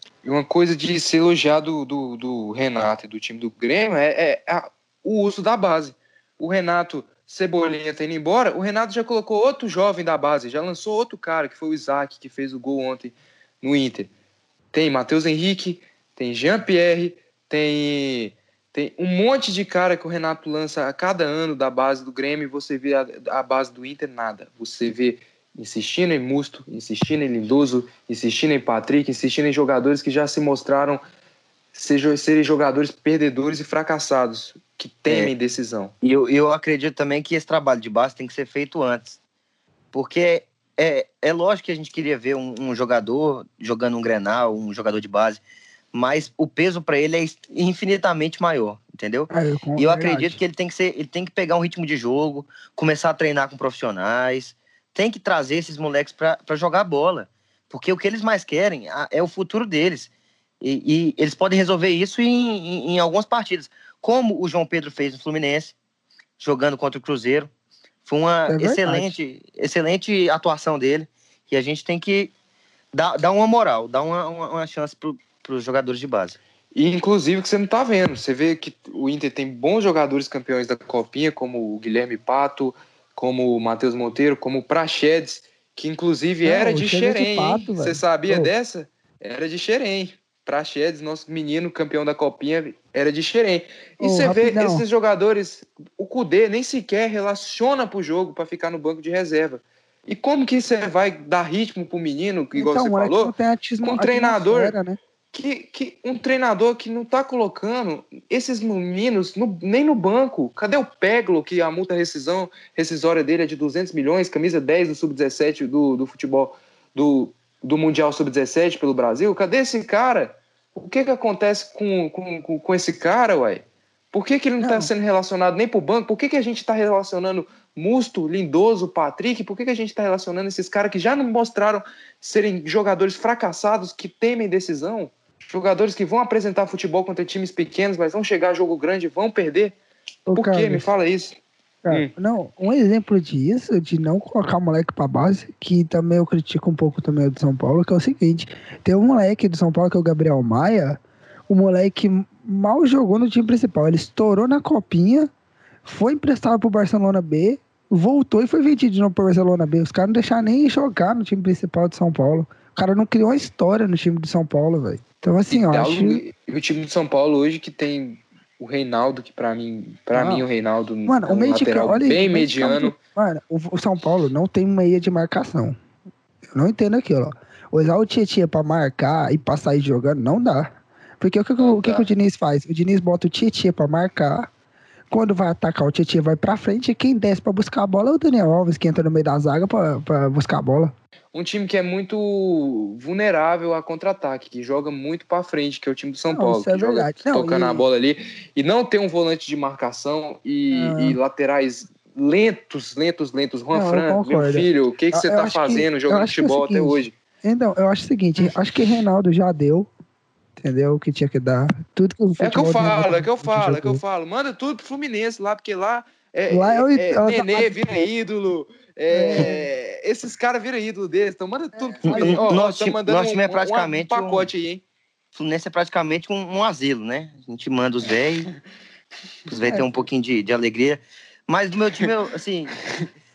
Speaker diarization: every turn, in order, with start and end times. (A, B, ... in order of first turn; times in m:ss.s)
0:00.2-0:14.1 A
0:14.7-0:31.0 A
0:31.7-0:35.9 A
0:35.1-0:35.3 B
0:36.0-0:39.2 B
0:39.9-0:45.4 B
0:45.9-1:05.7 B
0:49.3-0:50.4 C
1:06.4-1:07.5 B
1:08.0-1:12.3 B
1:08.5-1:09.1 C
1:12.9-1:16.4 B
1:16.7-1:44.7 A
1:26.4-1:28.5 C
1:34.0-1:34.8 C
1:42.5-1:45.0 C
1:45.3-2:19.7 A
2:04.6-2:04.9 C
2:20.3-2:20.9 C
2:20.3-2:21.4 A
2:21.8-2:35.3 C
2:35.8-2:46.2 C
2:45.5-2:52.9 A
2:50.1-2:50.4 C
2:51.0-2:55.8 C
2:56.5-3:04.5 C
3:01.6-3:02.1 A
3:05.1-3:10.9 C
3:11.3-3:27.1 A
3:16.3-3:17.9 C
3:20.7-3:21.2 C
3:23.7-3:29.9 C
3:30.6-3:34.0 C
3:32.4-3:44.8 A
3:36.5-3:37.7 C
3:39.1-3:39.7 C
3:41.8-3:42.5 C
3:42.0-3:44.5 B
3:45.3-3:48.5 B
3:49.5-3:53.0 B